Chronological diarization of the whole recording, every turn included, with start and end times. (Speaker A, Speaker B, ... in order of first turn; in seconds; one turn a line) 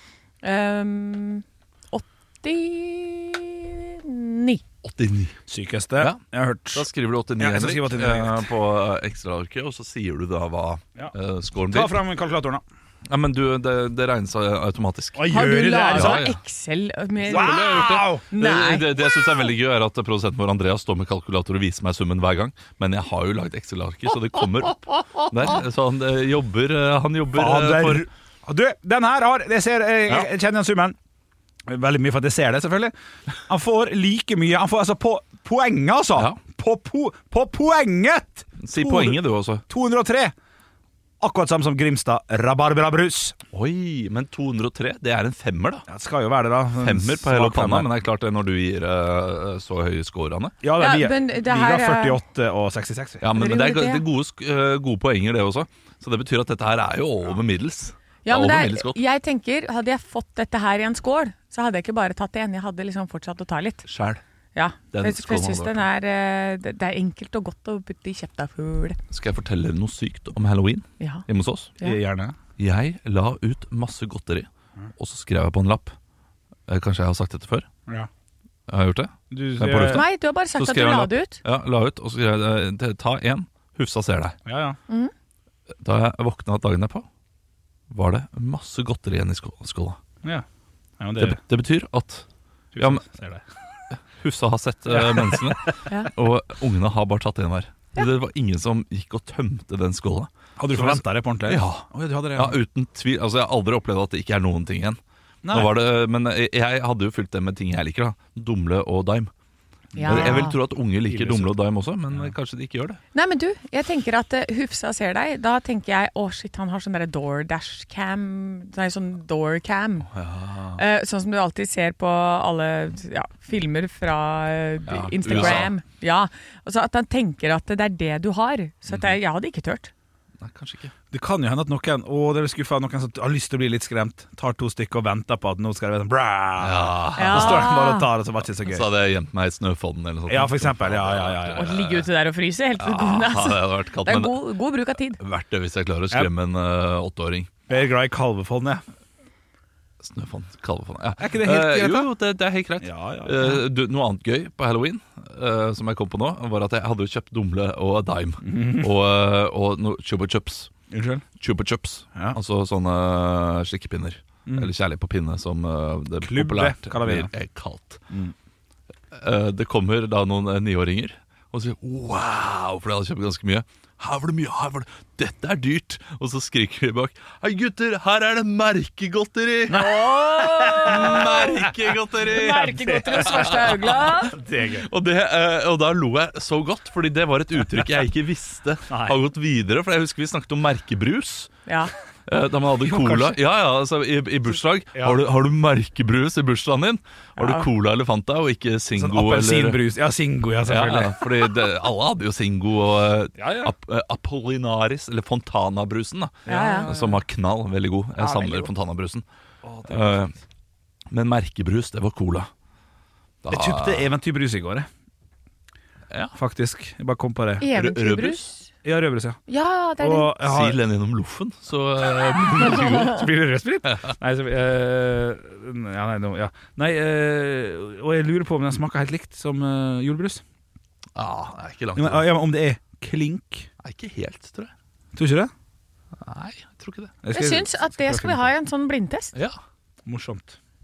Speaker A: 0.4-4.6
Speaker B: 4.8-5.3
Speaker C: 5.5-6.9
Speaker B: 6.7-12.0
Speaker C: 7.4-8.5
Speaker C: 11.7-12.6
Speaker B: 13.1-15.2
Speaker C: 15.1-16.2
Speaker A: 15.3-19.2
Speaker B: 15.9-16.4
Speaker B: 17.2-28.1
Speaker C: 17.3-18.2
Speaker C: 27.3-30.9
Speaker C: 31.7-32.9
Speaker C: 33.5-40.3
Speaker B: 38.6-39.6
Speaker C: 41.2-43.4
Speaker B: 43.5-45.9
Speaker C: 45.9-47.9
Speaker B: 46.8-50.5
Speaker C: 50.6-53.2
Speaker A: 50.8-52.2
Speaker B: 53.2-59.0
Speaker A: 53.3-54.0
Speaker A: 58.2-63.9
Speaker B: 63.9-64.2
Speaker A: 64.5-69.0
Speaker B: 64.9-65.9
Speaker B: 69.1-71.7
Speaker C: 71.8-72.3
Speaker B: 72.6-75.9
Speaker B: 76.7-77.7
Speaker B: 78.7-84.4
Speaker C: 79.3-80.0
Speaker A: 79.8-81.4
Speaker C: 84.5-84.8
Speaker B: 85.8-87.0
Speaker B: 87.9-90.0
Speaker C: 91.0-91.4
Speaker B: 91.2-92.2
Speaker C: 92.7-93.4
Speaker B: 92.8-93.0
Speaker B: 93.9-105.0
Speaker C: 94.9-95.5
Speaker C: 100.6-102.6
Speaker C: 105.4-105.7
Speaker B: 105.5-109.3
Speaker C: 109.9-110.5
Speaker A: 110.0-110.5
Speaker B: 110.0-113.0
Speaker C: 111.0-111.5
Speaker A: 113.1-120.2
Speaker B: 120.1-120.8
Speaker A: 120.7-129.9
Speaker B: 124.9-125.7
Speaker C: 125.3-125.7
Speaker B: 128.9-129.1
Speaker B: 130.4-130.9
Speaker C: 131.1-138.9
Speaker B: 136.6-137.7
Speaker A: 137.2-138.1
Speaker B: 138.6-142.1
Speaker C: 140.3-141.7
Speaker A: 141.5-145.2
Speaker B: 142.8-144.5
Speaker B: 145.2-147.5
Speaker C: 147.7-148.8
Speaker B: 150.0-160.7
Speaker C: 151.2-152.1
Speaker C: 152.8-153.6
Speaker C: 158.4-158.9
Speaker C: 160.9-161.2
Speaker B: 161.4-168.0
Speaker C: 166.2-167.3
Speaker B: 169.1-180.0
Speaker C: 179.7-181.7
Speaker A: 179.7-181.7
Speaker B: 180.7-184.2
Speaker A: 182.2-184.3
Speaker C: 182.7-184.9
Speaker B: 184.8-191.5
Speaker C: 188.9-189.2
Speaker A: 191.7-191.9
Speaker B: 192.3-199.8
Speaker C: 192.8-193.4
Speaker C: 194.9-195.2
Speaker A: 197.4-197.7
Speaker C: 198.9-201.3
Speaker B: 200.7-209.2
Speaker C: 203.4-203.7
Speaker C: 206.4-207.1
Speaker A: 206.5-207.1
Speaker A: 208.2-208.7
Speaker C: 209.6-210.3
Speaker B: 209.9-210.3
Speaker B: 211.1-212.5
Speaker B: 213.4-214.1
Speaker C: 213.5-214.9
Speaker C: 216.3-217.7
Speaker A: 217.6-218.7
Speaker B: 217.7-218.5
Speaker C: 218.8-219.4
Speaker A: 219.5-220.3
Speaker C: 220.0-220.8
Speaker B: 220.4-223.3
Speaker C: 222.6-230.4
Speaker B: 231.2-232.3
Speaker C: 231.9-233.7
Speaker B: 233.8-234.7
Speaker C: 235.1-235.5
Speaker B: 236.2-237.1
Speaker C: 237.2-238.5
Speaker A: 237.3-239.3
Speaker C: 240.1-240.6